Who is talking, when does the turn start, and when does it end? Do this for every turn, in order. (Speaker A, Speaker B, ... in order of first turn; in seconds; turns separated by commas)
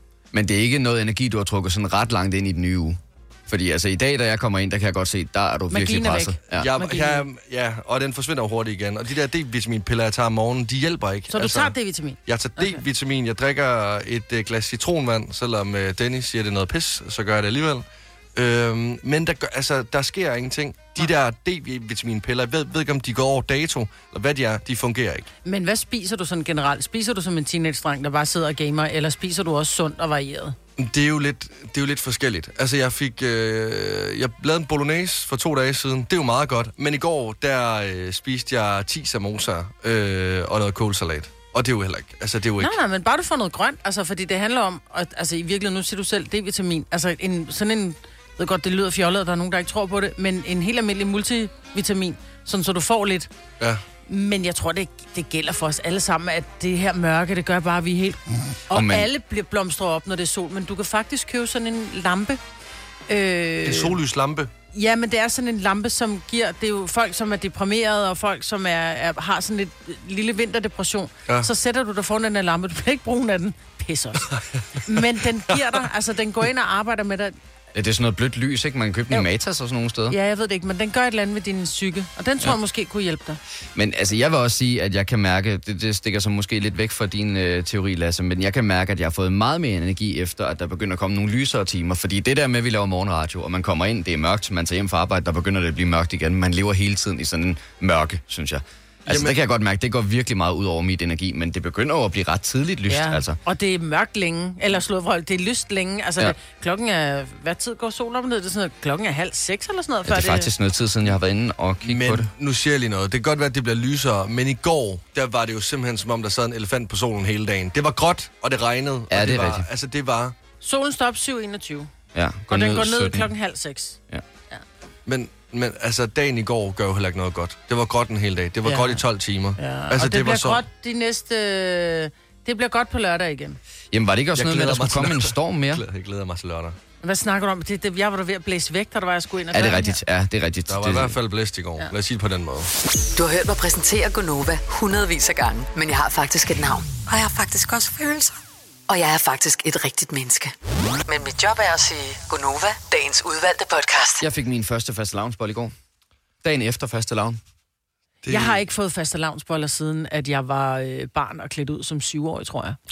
Speaker A: 0.3-6.7, Speaker B: 5.7-7.2, Speaker C: 6.5-11.7, Speaker B: 11.3-12.8, Speaker C: 12.2-25.3, Speaker B: 25.4-30.6, Speaker C: 30.8-42.8, Speaker B: 42.6-53.3, Speaker B: 54.1-62.4, Speaker A: 58.7-59.1, Speaker B: 63.1-64.0, Speaker C: 63.6-64.5, Speaker B: 64.7-74.3, Speaker B: 74.8-77.3, Speaker A: 77.7-80.2, Speaker B: 80.1-83.4, Speaker A: 83.7-103.4, Speaker C: 99.1-99.3, Speaker B: 102.9-110.5, Speaker A: 110.0-112.3, Speaker C: 111.8-120.3, Speaker A: 119.1-119.7, Speaker B: 120.6-121.9, Speaker A: 122.1-123.3, Speaker B: 122.5-124.0, Speaker C: 125.0-130.6, Speaker B: 128.6-129.0, Speaker B: 129.6-133.6, Speaker A: 133.9-135.8, Speaker C: 134.3-136.8, Speaker B: 137.0-140.0, Speaker A: 139.5-141.1, Speaker C: 140.7-142.7, Speaker D: 143.1-148.3, Speaker D: 148.9-150.5, Speaker D: 151.1-154.2, Speaker A: 154.2-155.7, Speaker A: 156.4-157.4, Speaker C: 158.2-158.6, Speaker B: 158.3-162.8